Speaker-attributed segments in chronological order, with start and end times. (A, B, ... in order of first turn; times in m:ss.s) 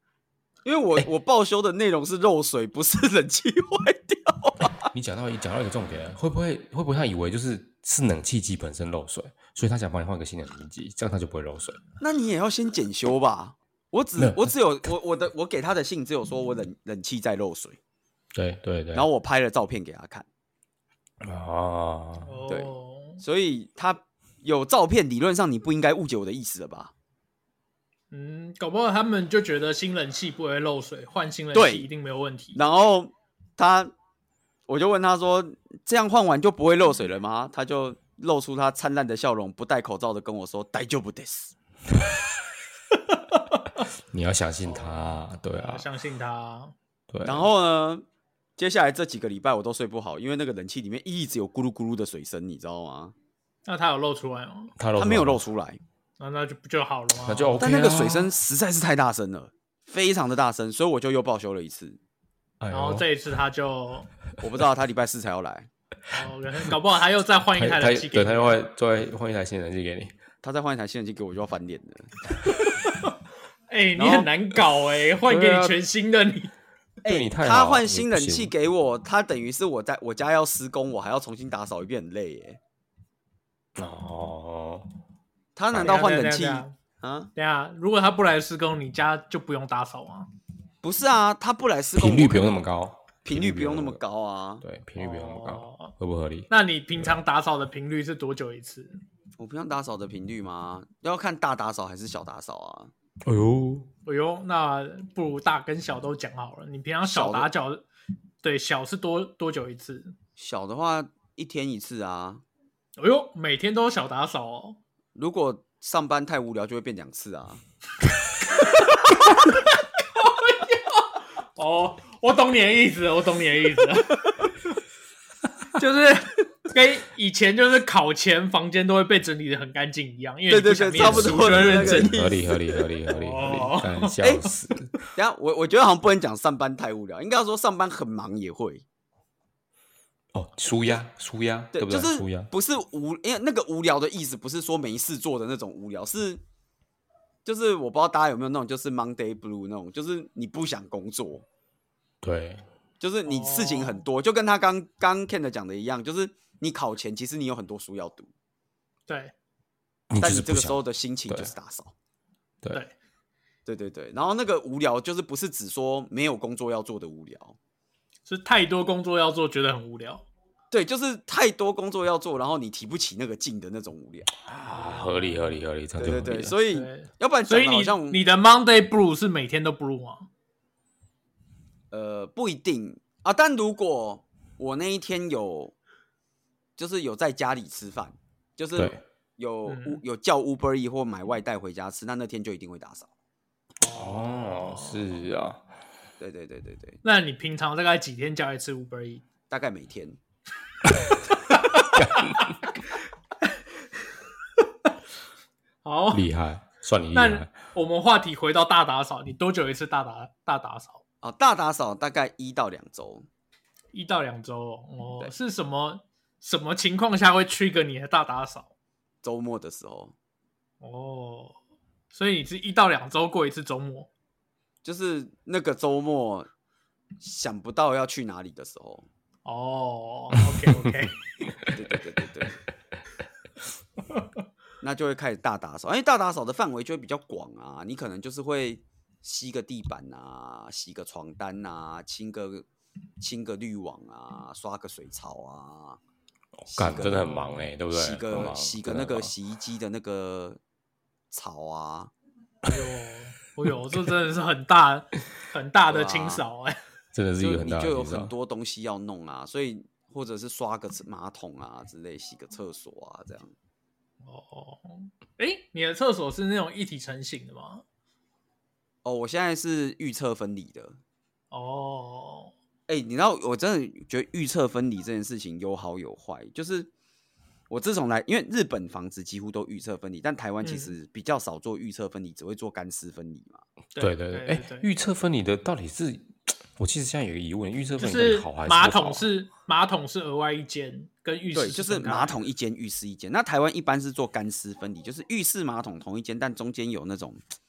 0:00.6-0:04.9 A
0:04.9-0:11.8 B
0:12.0-0:17.8 A
0:14.2-0:14.5 B
0:18.3-0:19.1 B
0:18.9-0:20.2 A
0:21.2-0:22.4 B
0:22.2-0:23.2 C
0:22.5-0:26.9 A
0:28.1-0:32.6 C
0:31.5-0:31.8 A
0:32.5-0:33.9 A
0:34.7-0:41.5 A
0:43.1-0:43.8 C
0:44.1-0:45.8 B
0:44.7-0:46.7 C
0:47.1-0:47.5 B
0:47.2-0:48.0 A
0:48.6-0:53.1 A
0:53.6-0:54.7 C
0:54.8-0:55.4 B
0:55.0-0:55.8 A
0:56.2-0:57.6 C
0:57.2-0:58.3 B
0:57.6-1:02.0 A
1:02.6-1:03.1 B
1:02.7-1:04.1 C
1:04.4-1:05.7 A
1:06.1-1:08.6 C
1:07.5-1:10.1 B
1:10.4-1:12.2 A
1:12.6-1:13.1 C
1:13.7-1:16.5 C
1:14.0-1:14.3 A
1:15.2-1:15.8 B
1:17.0-1:22.6 A
1:17.1-1:18.5 B
1:23.8-1:24.9 B
1:25.6-1:27.3 A
1:25.8-1:26.7 C
1:27.3-1:30.3 C
1:30.8-1:32.6 A
1:31.9-1:34.0 B
1:33.2-1:34.6 A
1:34.6-1:37.1 B
1:35.0-1:35.9 C
1:36.5-1:39.0 C
1:39.4-1:42.9 A
1:43.2-1:43.9 B
1:44.0-1:47.8 C
1:47.0-1:47.5 A
1:48.4-1:50.1 C
1:50.4-1:52.4 A
1:53.0-1:54.8 C
1:55.1-1:57.6 A
1:58.6-2:04.4 C
2:05.8-2:12.2 C
2:10.5-2:12.7 A
2:11.0-2:14.9 B
2:13.1-2:14.2 C
2:14.2-2:14.5 A
2:15.1-2:18.8 A
2:20.3-2:22.5 B
2:21.7-2:26.4 A
2:27.4-2:31.4 A
2:32.2-2:32.6 B
2:33.0-2:38.3 A
2:33.3-2:34.0 C
2:39.1-2:39.3 C
2:40.1-2:41.5 B
2:40.2-2:41.9 A
2:43.6-2:47.6 A
2:48.3-2:50.3 C
2:50.7-2:54.3 A
2:54.4-2:56.6 B
2:54.6-2:55.6 C
2:56.0-2:58.2 A
2:56.7-3:00.3 C
3:01.9-3:05.7 A
3:06.8-3:13.1 A
3:08.7-3:09.0 B
3:09.6-3:10.0 C
3:13.8-3:15.2 C
3:13.9-3:15.6 B
3:16.2-3:17.0 A
3:17.0-3:19.2 C
3:19.5-3:20.2 A
3:21.5-3:22.7 C
3:22.0-3:22.4 B
3:24.6-3:24.9 C
3:25.8-3:26.3 C
3:26.1-3:27.5 B
3:27.1-3:31.0 C
3:31.2-3:33.2 A
3:33.9-3:38.7 C
3:39.2-3:40.1 A
3:40.8-3:41.6 C
3:42.1-3:44.1 C
3:44.8-3:46.5 A
3:47.2-3:49.1 A
3:49.4-3:51.2 C
3:51.7-3:52.6 A
3:54.8-4:02.6 A
4:03.2-4:06.0 A
4:06.7-4:07.4 A
4:06.7-4:09.3 B
4:07.1-4:07.6 C
4:07.9-4:10.6 A
4:11.3-4:12.1 A
4:12.6-4:16.8 C
4:15.9-4:16.4 A
4:17.1-4:18.3 B
4:17.4-4:23.5 A
4:24.2-4:27.8 C
4:29.0-4:31.0 A
4:31.5-4:32.5 C
4:32.9-4:36.9 A
4:37.7-4:43.6 A
4:40.6-4:40.9 C
4:43.9-4:44.9 C
4:44.0-4:49.3 B
4:48.0-4:52.4 C
4:51.5-4:57.4 A